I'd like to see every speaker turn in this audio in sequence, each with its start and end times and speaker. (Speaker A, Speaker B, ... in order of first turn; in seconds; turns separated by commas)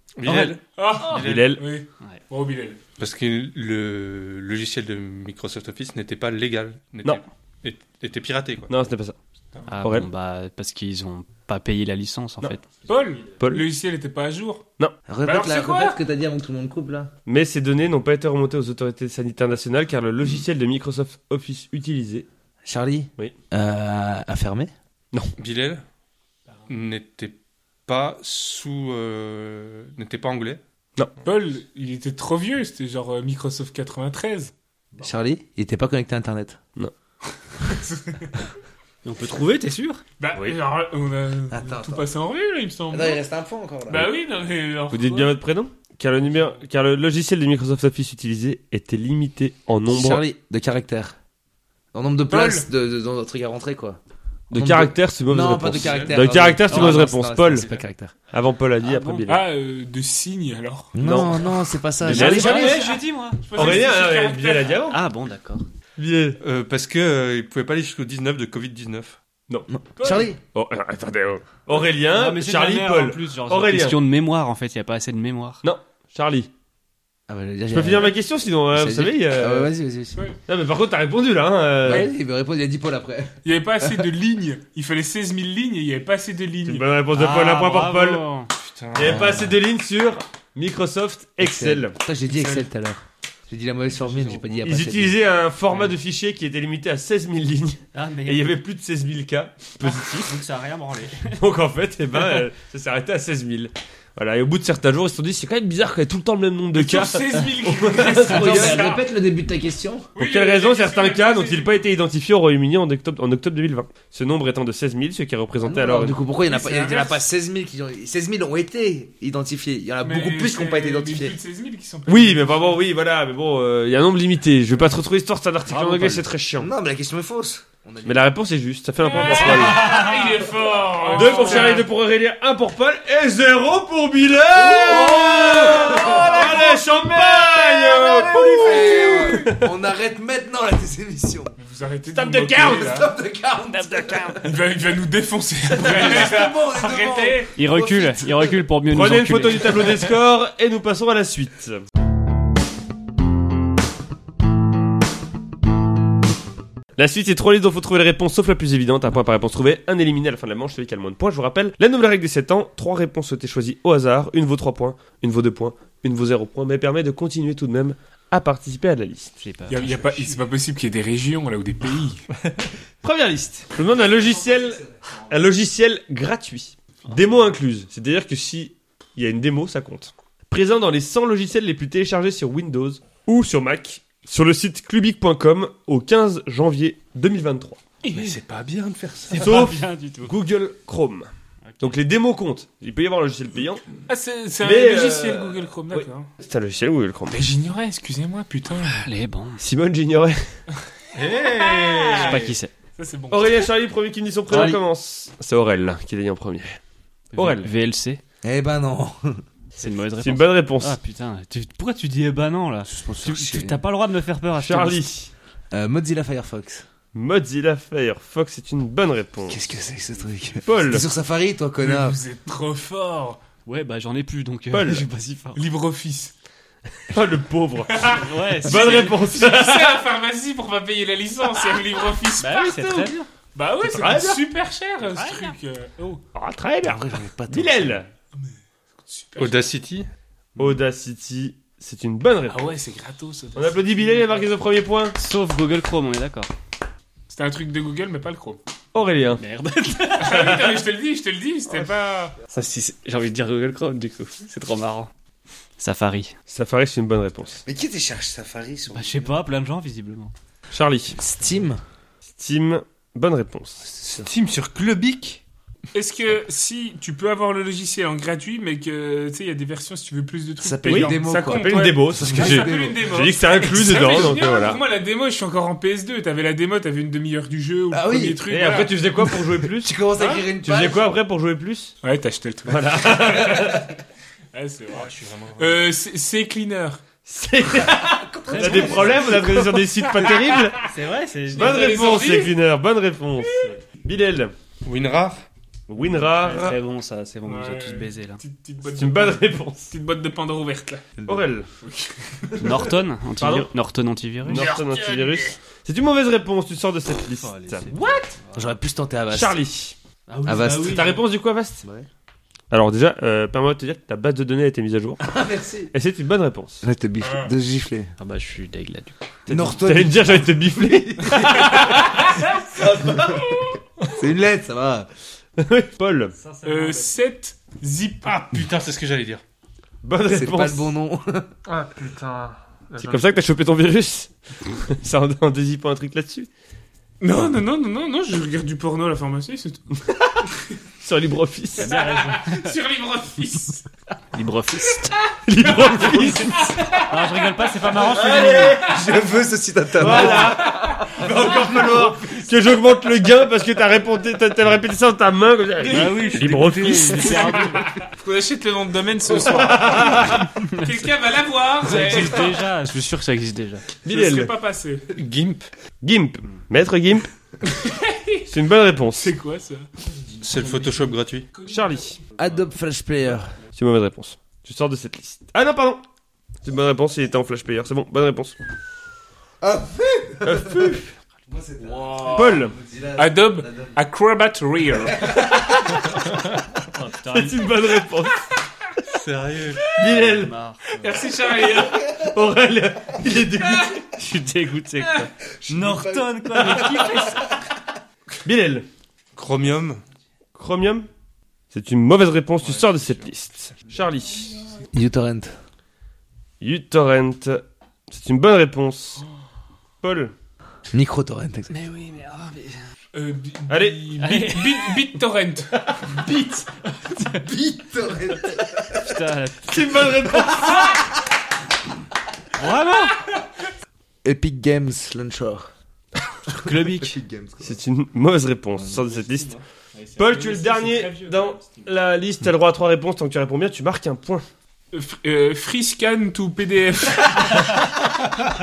Speaker A: 0.2-1.6, Speaker B: 0.3-0.5, Speaker C: 0.8-2.8, Speaker D: 1.0-1.7, Speaker A: 3.0-8.7, Speaker D: 8.7-9.2, Speaker B: 9.7-12.7, Speaker D: 9.8-10.1, Speaker C: 12.9-14.7, Speaker E: 15.1-17.1, Speaker C: 15.2-16.0, Speaker D: 17.3-22.3, Speaker E: 22.6-24.7, Speaker A: 25.4-25.8, Speaker A: 26.7-30.6, Speaker C: 31.2-34.5, Speaker E: 34.9-36.6, Speaker C: 37.6-38.4, Speaker B: 39.0-40.0, Speaker C: 40.2-43.2, Speaker E: 41.5-42.0, Speaker E: 42.9-44.1, Speaker C: 43.9-45.4, Speaker D: 44.9-50.2, Speaker E: 49.9-51.2, Speaker E: 51.9-54.0, Speaker C: 52.3-52.7, Speaker D: 54.5-57.7, Speaker E: 54.5-58.1, Speaker A: 55.8-56.2, Speaker B: 56.6-57.8, Speaker D: 58.3-59.4, Speaker B: 58.8-59.3, Speaker C: 59.3-61.0, Speaker E: 61.0-62.9, Speaker D: 61.0-62.7, Speaker B: 62.0-63.4, Speaker C: 62.2-64.8, Speaker D: 63.5-65.0, Speaker B: 64.9-65.7, Speaker D: 66.0-66.4, Speaker A: 66.4-69.2, Speaker E: 69.7-70.4, Speaker C: 70.0-70.3, Speaker D: 70.4-74.0, Speaker B: 72.1-75.6, Speaker D: 75.6-76.5, Speaker E: 77.3-78.2, Speaker D: 77.7-79.7, Speaker E: 78.7-80.2, Speaker D: 80.5-82.1, Speaker E: 81.8-84.1, Speaker C: 83.4-86.9, Speaker D: 86.7-88.2, Speaker B: 87.1-88.5, Speaker A: 88.5-89.5, Speaker D: 89.0-92.0, Speaker E: 91.4-95.2, Speaker D: 94.6-100.4, Speaker B: 97.9-98.6, Speaker B: 99.8-101.4, Speaker D: 101.4-109.0, Speaker C: 106.7-109.0, Speaker E: 108.3-110.1, Speaker C: 110.2-111.8, Speaker D: 110.2-116.2, Speaker E: 115.6-121.4, Speaker C: 116.5-117.2, Speaker C: 120.0-122.8, Speaker D: 122.1-126.7, Speaker B: 125.7-126.3, Speaker E: 126.6-128.2, Speaker D: 128.1-129.9, Speaker C: 129.0-131.9, Speaker B: 129.1-130.4, Speaker B: 131.1-131.8, Speaker D: 131.1-139.6, Speaker E: 134.5-141.6, Speaker B: 135.4-136.2, Speaker C: 138.3-139.5, Speaker C: 141.6-143.1, Speaker D: 142.1-143.0, Speaker E: 142.6-144.4, Speaker D: 143.9-144.4, Speaker C: 144.4-147.5, Speaker E: 145.8-148.6, Speaker B: 147.6-149.8, Speaker D: 148.9-151.8, Speaker D: 157.0-169.4, Speaker B: 169.4-170.4, Speaker C: 169.7-172.3, Speaker D: 173.0-187.8, Speaker C: 188.0-188.4, Speaker A: 188.1-189.7, Speaker B: 189.3-190.3, Speaker D: 189.3-191.3, Speaker B: 191.7-192.0, Speaker D: 191.8-193.9, Speaker C: 194.1-196.3, Speaker D: 194.6-197.4, Speaker C: 197.3-199.1, Speaker B: 198.8-199.6, Speaker D: 199.6-200.4, Speaker A: 201.1-202.6, Speaker B: 202.1-202.7, Speaker C: 203.0-203.7, Speaker D: 203.3-206.8, Speaker B: 204.5-204.8, Speaker B: 207.3-208.2, Speaker D: 207.3-207.7, Speaker E: 208.4-209.4, Speaker B: 209.8-215.1, Speaker D: 210.2-211.0, Speaker E: 212.9-213.8, Speaker D: 214.6-215.3, Speaker E: 215.7-216.9, Speaker D: 217.1-219.6, Speaker E: 219.5-222.2, Speaker D: 220.6-221.1, Speaker C: 221.8-223.4, Speaker B: 223.7-225.6, Speaker D: 224.7-225.1, Speaker C: 225.6-226.3, Speaker D: 227.1-230.0, Speaker C: 227.9-236.2, Speaker B: 228.1-229.2, Speaker B: 232.4-233.3, Speaker D: 233.8-234.4, Speaker B: 235.0-235.6, Speaker D: 236.3-238.1, Speaker E: 236.8-238.0, Speaker C: 239.1-239.6, Speaker A: 239.4-240.1, Speaker D: 240.6-242.8, Speaker C: 242.5-244.4, Speaker D: 243.6-245.2, Speaker B: 245.2-246.5, Speaker C: 247.3-248.6, Speaker D: 248.9-249.4, Speaker B: 249.4-250.7, Speaker C: 250.2-252.4, Speaker B: 252.5-255.1, Speaker B: 255.8-256.4, Speaker D: 256.5-257.6, Speaker E: 257.7-259.4, Speaker B: 258.9-260.3, Speaker D: 260.7-261.2, Speaker E: 261.2-261.8, Speaker D: 262.3-263.9, Speaker E: 264.0-264.3, Speaker A: 264.1-265.4, Speaker C: 265.9-279.0, Speaker E: 270.6-273.1, Speaker D: 270.9-274.8, Speaker E: 277.9-278.5, Speaker D: 278.5-280.0, Speaker E: 279.5-281.1, Speaker D: 280.5-281.9, Speaker C: 282.0-283.8, Speaker D: 282.7-283.9, Speaker C: 284.5-287.0, Speaker A: 285.0-285.9, Speaker D: 287.3-290.9, Speaker E: 288.3-289.4, Speaker B: 288.5-289.7, Speaker C: 290.2-290.7, Speaker B: 290.8-292.0, Speaker D: 291.5-294.5, Speaker C: 291.5-292.6, Speaker C: 293.4-293.7, Speaker A: 294.8-295.5, Speaker D: 295.9-296.8, Speaker B: 296.4-298.4, Speaker C: 297.5-301.1, Speaker D: 298.9-299.9, Speaker D: 301.3-301.7, Speaker C: 301.8-302.5, Speaker B: 302.6-304.7, Speaker D: 303.4-303.7, Speaker D: 304.5-307.9, Speaker C: 304.5-305.3, Speaker B: 307.4-308.8, Speaker C: 307.9-308.3, Speaker E: 308.5-309.6, Speaker D: 309.3-310.0, Speaker B: 310.3-311.2, Speaker E: 310.4-311.2, Speaker D: 310.8-311.8, Speaker E: 311.8-312.1, Speaker D: 312.7-315.4, Speaker E: 315.2-315.9, Speaker D: 315.9-316.8, Speaker E: 316.8-318.1, Speaker C: 317.2-317.5, Speaker B: 318.2-319.2, Speaker E: 319.5-321.9, Speaker D: 319.5-322.1, Speaker C: 321.6-322.4, Speaker E: 322.7-325.1, Speaker D: 322.8-323.4, Speaker D: 325.6-326.4, Speaker B: 326.4-327.1, Speaker C: 326.6-328.5, Speaker A: 328.2-329.4, Speaker D: 330.0-330.9, Speaker E: 330.3-331.5, Speaker A: 331.7-333.2, Speaker D: 333.0-336.5, Speaker C: 337.2-339.9, Speaker D: 340.0-340.4, Speaker D: 341.0-341.9, Speaker B: 341.8-342.7, Speaker C: 341.8-343.9, Speaker B: 344.3-345.2, Speaker D: 345.5-346.7, Speaker C: 345.6-347.3, Speaker B: 345.9-348.8, Speaker D: 347.9-349.1, Speaker E: 348.4-352.1, Speaker D: 350.0-357.7, Speaker C: 350.1-351.4, Speaker C: 355.8-356.3, Speaker B: 355.9-357.9, Speaker E: 356.4-357.3, Speaker C: 357.1-362.6, Speaker D: 359.3-360.5, Speaker B: 360.4-361.1, Speaker B: 361.8-363.9, Speaker D: 364.1-364.5, Speaker C: 364.1-365.1, Speaker A: 365.1-365.7, Speaker D: 366.0-367.3, Speaker C: 367.6-368.5, Speaker D: 368.5-369.3, Speaker C: 369.1-369.9, Speaker A: 370.4-371.5, Speaker C: 371.6-372.0, Speaker D: 371.6-372.2, Speaker E: 372.4-373.5, Speaker D: 373.7-376.0, Speaker D: 376.6-378.6, Speaker E: 379.6-384.0, Speaker D: 380.4-381.1, Speaker C: 381.9-382.5, Speaker D: 382.2-382.7, Speaker C: 383.2-385.3, Speaker E: 385.2-385.5, Speaker B: 386.9-387.7, Speaker D: 387.2-388.5, Speaker A: 389.1-389.9, Speaker D: 389.9-390.5, Speaker B: 390.0-390.8, Speaker C: 391.0-392.1, Speaker D: 391.3-394.0, Speaker C: 393.6-394.0, Speaker B: 394.2-397.5, Speaker E: 395.6-397.4, Speaker D: 398.4-398.9, Speaker A: 399.4-400.0, Speaker D: 400.6-401.1, Speaker D: 401.7-404.7, Speaker A: 402.6-403.3, Speaker E: 404.9-405.5, Speaker D: 406.6-409.2, Speaker D: 410.0-410.3, Speaker E: 410.9-411.7, Speaker B: 411.7-412.8, Speaker C: 413.1-416.2, Speaker D: 413.7-414.1, Speaker B: 414.2-415.0, Speaker B: 416.0-417.5, Speaker E: 417.3-419.0, Speaker B: 418.8-420.0, Speaker D: 419.6-421.1, Speaker B: 422.6-423.2, Speaker E: 424.2-425.7, Speaker B: 426.5-427.2, Speaker E: 426.5-427.8, Speaker D: 427.6-429.6, Speaker C: 430.0-431.6, Speaker D: 430.2-434.5, Speaker B: 430.2-430.9, Speaker C: 434.9-437.8